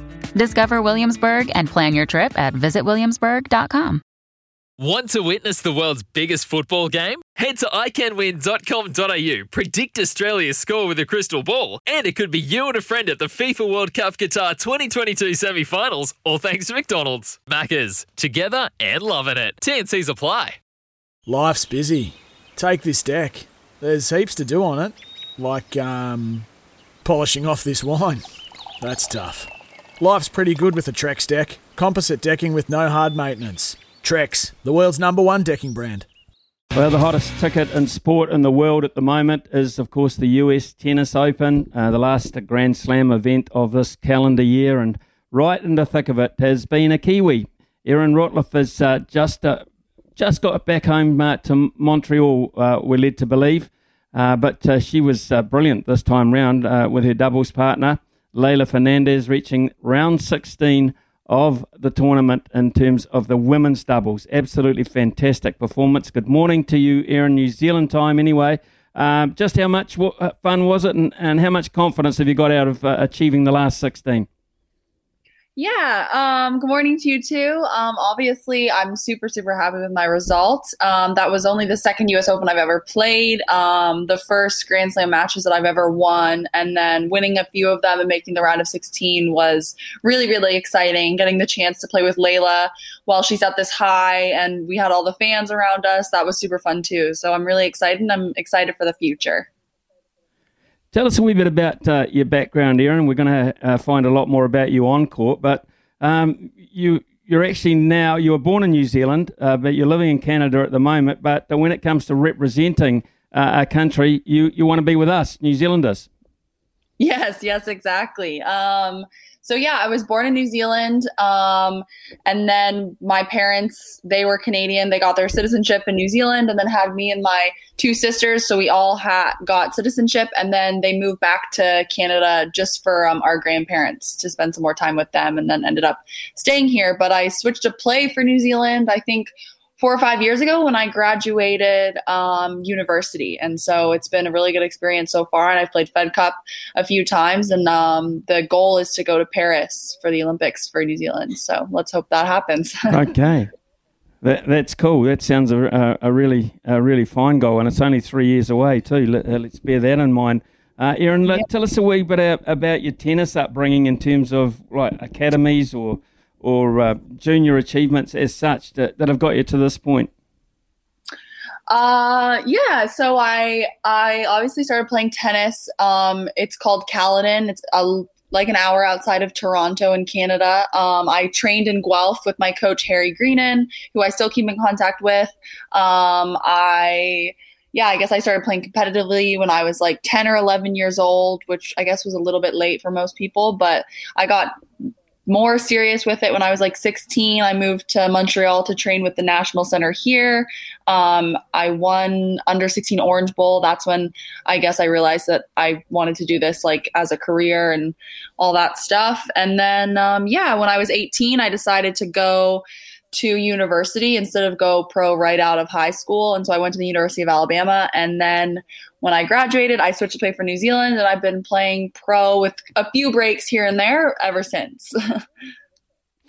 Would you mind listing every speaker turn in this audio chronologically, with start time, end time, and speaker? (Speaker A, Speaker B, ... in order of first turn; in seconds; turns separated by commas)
Speaker A: 0.3-4.0, Speaker B: 4.8-20.6, Speaker C: 21.2-26.5, Speaker C: 27.0-28.2, Speaker C: 28.8-36.1, Speaker D: 36.7-49.6, Speaker D: 50.2-74.3, Speaker E: 75.5-99.5, Speaker D: 100.9-116.1, Speaker E: 117.0-153.0, Speaker D: 152.9-153.5, Speaker D: 154.2-170.1, Speaker E: 171.7-194.5, Speaker E: 195.2-224.9